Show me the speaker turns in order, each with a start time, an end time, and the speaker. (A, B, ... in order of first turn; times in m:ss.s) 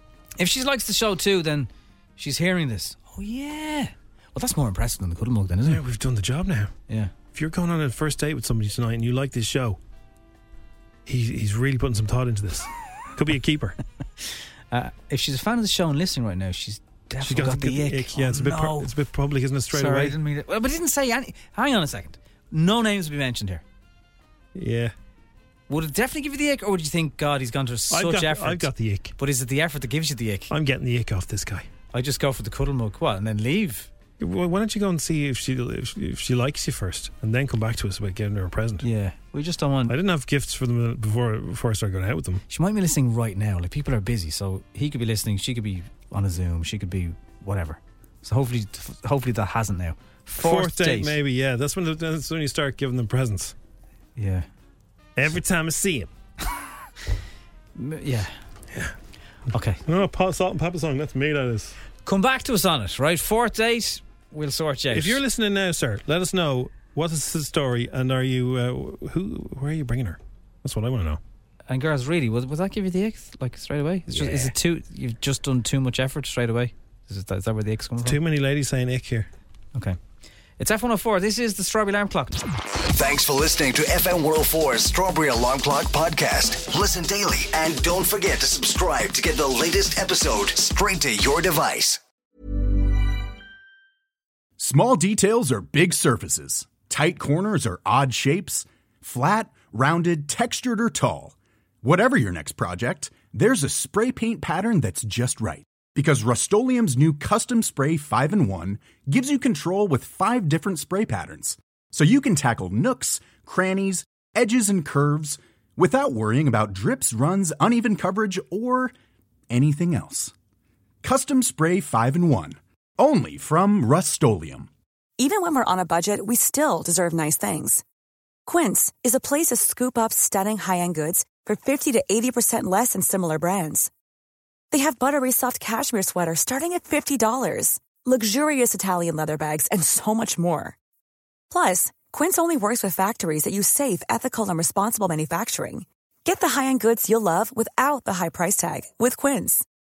0:00.4-0:05.8 A
0:05.6-0:06.7 B
0:07.3-0:09.8 B
0:11.0-0:13.8 B
0:14.2-0:18.9 A
0:17.2-0:20.2 B
0:19.7-0:23.6 A
0:24.5-0:24.9 B
0:25.7-0:30.5 A
0:27.9-0:29.1 B
0:30.5-0:31.7 B
0:31.9-0:33.9 A
0:34.2-0:38.8 B
0:38.8-0:40.0 A
0:39.9-0:42.4 B
0:42.5-0:51.2 A
0:50.4-0:53.5 B
0:54.2-0:54.4 A
0:55.2-0:56.1 B
0:57.8-0:58.3 A
0:59.5-0:59.8 A
0:59.8-1:01.8 B
1:02.0-1:05.2 A
1:04.9-1:11.2 B
1:11.7-1:18.2 A
1:14.1-1:14.5 B
1:18.0-1:19.3 B
1:20.6-1:22.4 A
1:22.9-1:32.0 C
1:34.6-1:58.9 D
1:59.5-2:00.3 D
2:01.0-2:04.7 D
2:05.2-2:07.8 E
2:08.4-2:13.9 E
2:14.7-2:20.7 E
2:21.5-2:29.6 E